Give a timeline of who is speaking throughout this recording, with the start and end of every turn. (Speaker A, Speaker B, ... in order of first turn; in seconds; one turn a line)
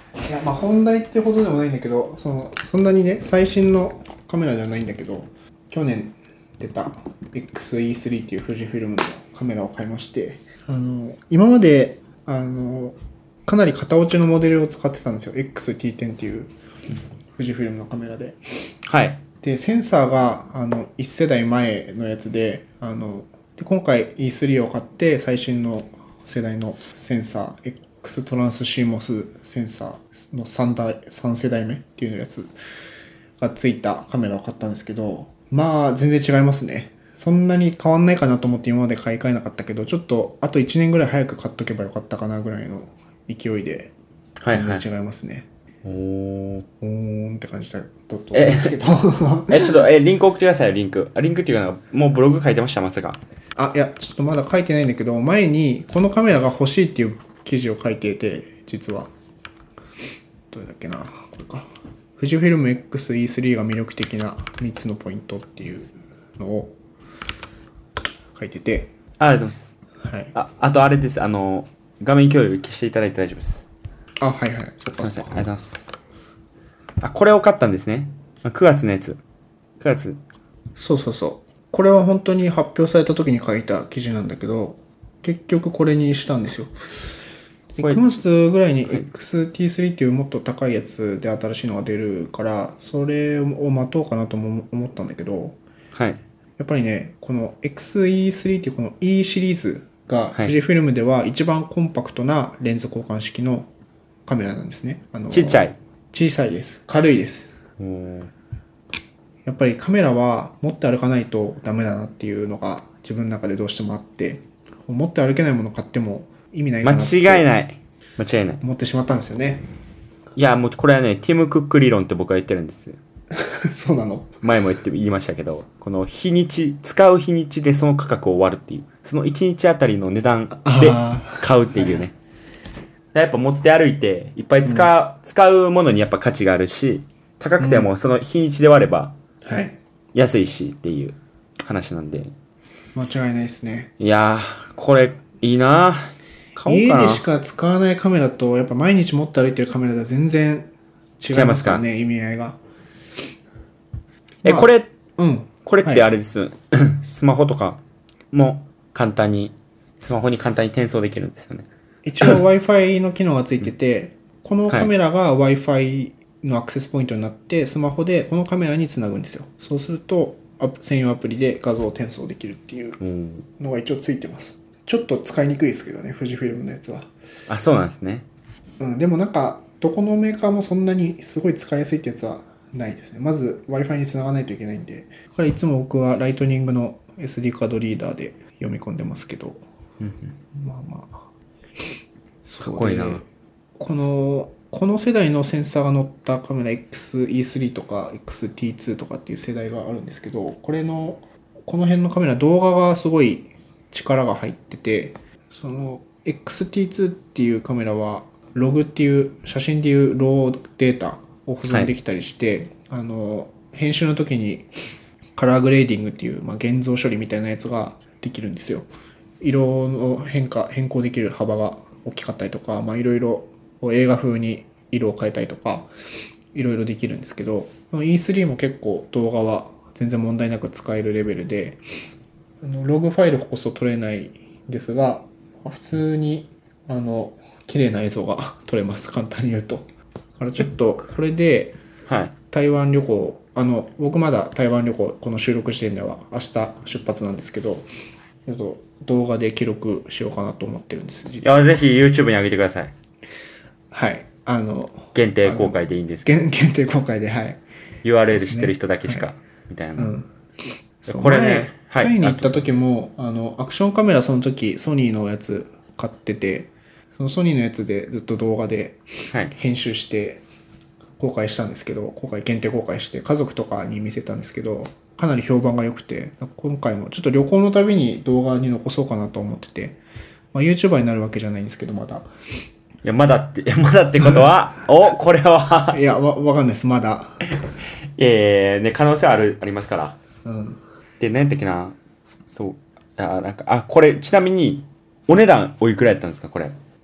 Speaker A: 0.2-16.5
Speaker A: 17.4-18.4
Speaker B: 18.8-19.2
Speaker A: 19.4-32.5
Speaker A: 33.4-43.9
Speaker B: 44.4-44.8
Speaker A: 44.5-45.5
Speaker B: 45.8-46.7
Speaker A: 46.8-49.8
Speaker B: 48.3-48.8
Speaker B: 49.5-53.2
Speaker A: 53.5-59.1
Speaker A: 60.5-66.7
Speaker A: 68.3-68.9
Speaker B: 69.2-69.8
Speaker A: 70.0-70.3
Speaker B: 70.3-73.7
Speaker A: 74.2-75.3
Speaker B: 74.8-75.9
Speaker B: 77.0-79.2
Speaker B: 79.8-80.2
Speaker A: 80.8-86.7
Speaker A: 87.7-95.6
Speaker B: 87.8-88.2
Speaker B: 95.9-96.2
Speaker A: 96.6-103.7
Speaker A: 104.2-107.5
Speaker B: 105.3-105.8
Speaker B: 107.8-108.3
Speaker A: 109.5-117.5
Speaker B: 116.8-118.6
Speaker A: 118.6-119.6
Speaker B: 120.3-123.0
Speaker A: 123.3-124.3
Speaker B: 124.4-132.1
Speaker A: 130.6-132.0
Speaker B: 133.1-139.2
Speaker A: 134.6-134.9
Speaker A: 137.6-137.9
Speaker A: 139.4-139.8
Speaker B: 140.1-142.3
Speaker A: 142.9-143.9
Speaker B: 144.0-147.2
Speaker A: 146.7-152.6
Speaker B: 151.3-151.8
Speaker B: 154.4-154.9
Speaker A: 154.4-156.0
Speaker B: 155.6-161.7
Speaker A: 162.0-173.0
Speaker B: 173.0-173.4
Speaker A: 173.6-177.1
Speaker B: 177.5-178.3
Speaker A: 178.8-189.6
Speaker B: 190.0-190.3
Speaker A: 190.5-191.2
Speaker A: 192.4-193.2
Speaker B: 192.6-193.2
Speaker A: 193.8-214.7
Speaker A: 215.3-218.8
Speaker A: 219.4-225.9
Speaker A: 226.5-231.8
Speaker A: 232.6-241.8
Speaker B: 242.1-242.3
Speaker A: 242.5-247.9
Speaker A: 248.4-251.5
Speaker B: 251.4-252.9
Speaker A: 253.9-257.6
Speaker B: 255.1-256.4
Speaker B: 258.0-260.1
Speaker A: 258.2-259.2
Speaker A: 260.0-260.3
Speaker A: 261.0-270.4
Speaker B: 261.1-262.7
Speaker A: 271.2-280.0
Speaker A: 280.5-282.3
Speaker B: 283.0-286.0
Speaker A: 285.9-287.5
Speaker B: 288.1-290.2
Speaker A: 290.4-290.8
Speaker B: 291.2-292.0
Speaker B: 292.5-296.7